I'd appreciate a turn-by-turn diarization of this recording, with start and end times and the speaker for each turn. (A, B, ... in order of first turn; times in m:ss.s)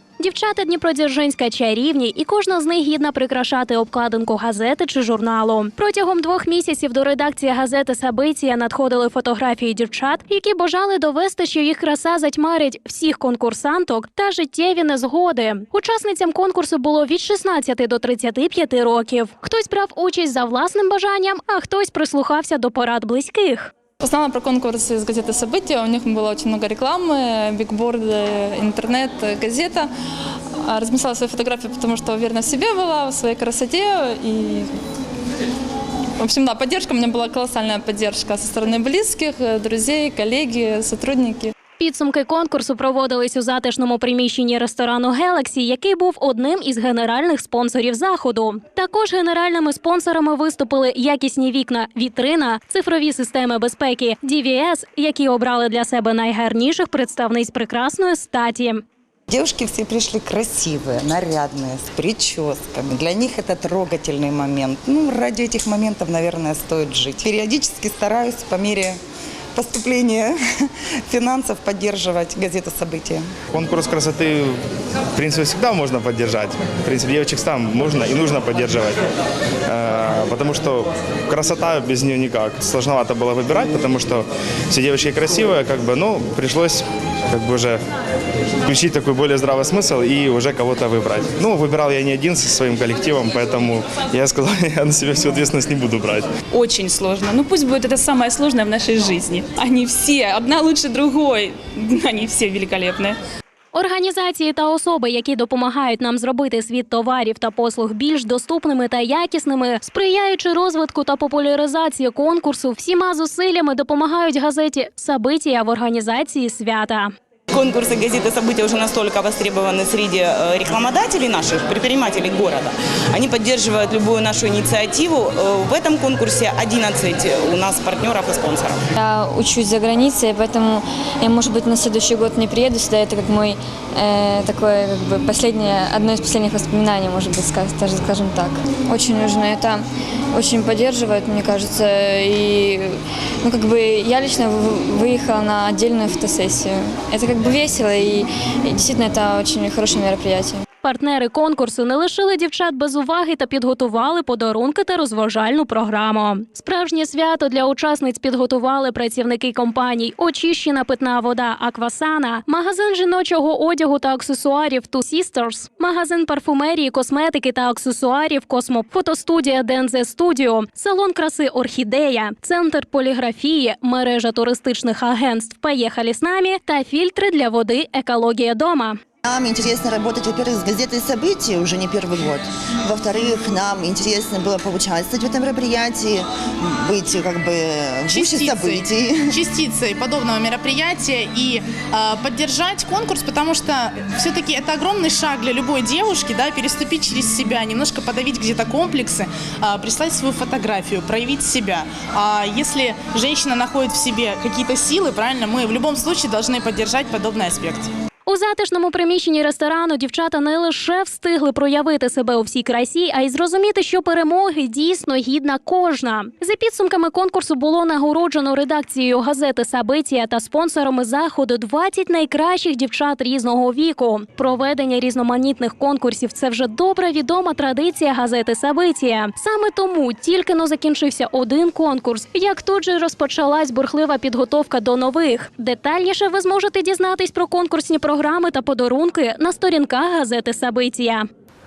0:00.2-0:23.7 A
0:24.0-0:29.9 B
0:30.6-0:34.7 B
0:36.2-0:41.5 B
0:41.8-0:58.8 A
0:59.3-1:09.0 C
1:09.5-1:10.4 C
1:11.0-1:13.3 C
1:13.5-1:19.0 D
1:19.6-1:27.8 D
1:28.6-1:36.3 D
1:36.5-1:43.2 E
1:43.7-1:57.1 A
1:57.5-2:08.8 F
2:09.0-2:30.6 G
2:30.8-2:59.0 A
2:59.2-3:09.3 H
3:08.1-3:27.9 I
3:28.3-4:01.3 A